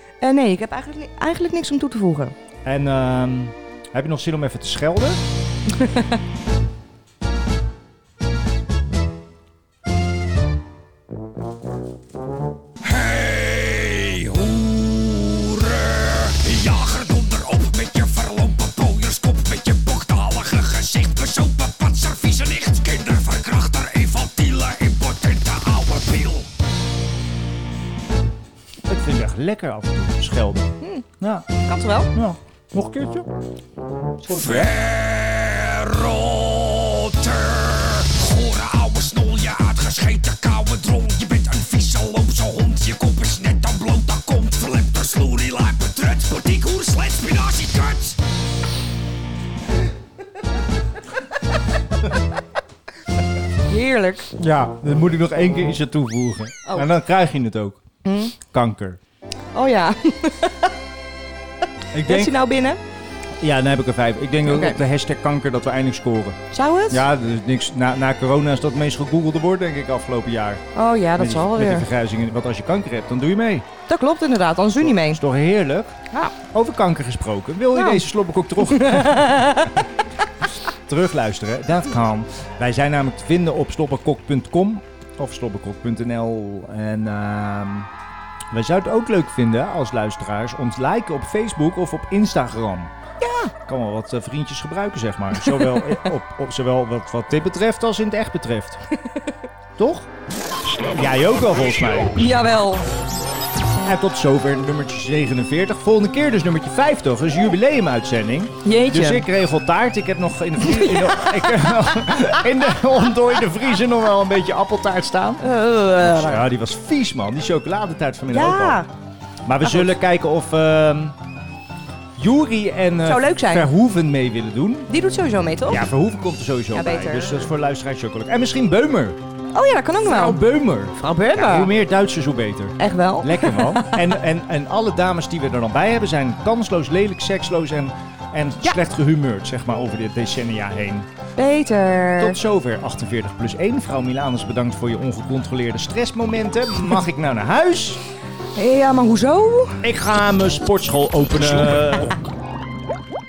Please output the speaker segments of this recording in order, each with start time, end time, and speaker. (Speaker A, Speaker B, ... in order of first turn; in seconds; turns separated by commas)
Speaker A: 0.2-2.3, Speaker B: 2.6-5.2, Speaker A: 5.7-6.1, Speaker C: 12.8-26.5, Speaker B: 28.8-31.5, Speaker A: 31.6-32.1, Speaker B: 32.1-33.3, Speaker B: 34.2-34.7, Speaker C: 34.3-48.2, Speaker A: 53.7-54.3, Speaker B: 54.4-57.8, Speaker A: 58.0-58.4, Speaker B: 58.3-59.0, Speaker A: 59.5-60.7, Speaker B: 61.9-62.3, Speaker A: 62.0-62.8, Speaker B: 63.4-70.6, Speaker A: 64.5-64.8, Speaker A: 66.5-67.0, Speaker A: 70.7-71.9, Speaker B: 71.2-73.7, Speaker A: 73.9-75.2, Speaker B: 74.8-76.0, Speaker B: 76.5-79.8, Speaker A: 77.7-78.0, Speaker A: 78.6-79.7, Speaker B: 80.9-87.9, Speaker B: 88.5-92.9, Speaker A: 93.2-93.5, Speaker B: 93.6-98.8, Speaker A: 95.5-96.0, Speaker B: 99.8-100.1, Speaker B: 100.9-102.3, Speaker A: 102.1-102.9, Speaker B: 103.8-115.5, Speaker A: 108.6-109.3, Speaker A: 110.8-111.2, Speaker A: 115.4-116.4, Speaker B: 116.0-118.8, Speaker A: 118.3-118.9, Speaker B: 119.5-121.2, Speaker B: 122.2-124.9, Speaker A: 123.0-123.7, Speaker A: 124.9-125.9, Speaker B: 125.7-129.2, Speaker A: 126.7-127.4, Speaker A: 129.5-130.4, Speaker B: 130.0-141.1, Speaker A: 130.9-131.7, Speaker A: 132.8-134.0, Speaker A: 141.4-142.4, Speaker B: 142.2-148.0, Speaker A: 148.6-149.8, Speaker B: 149.8-152.2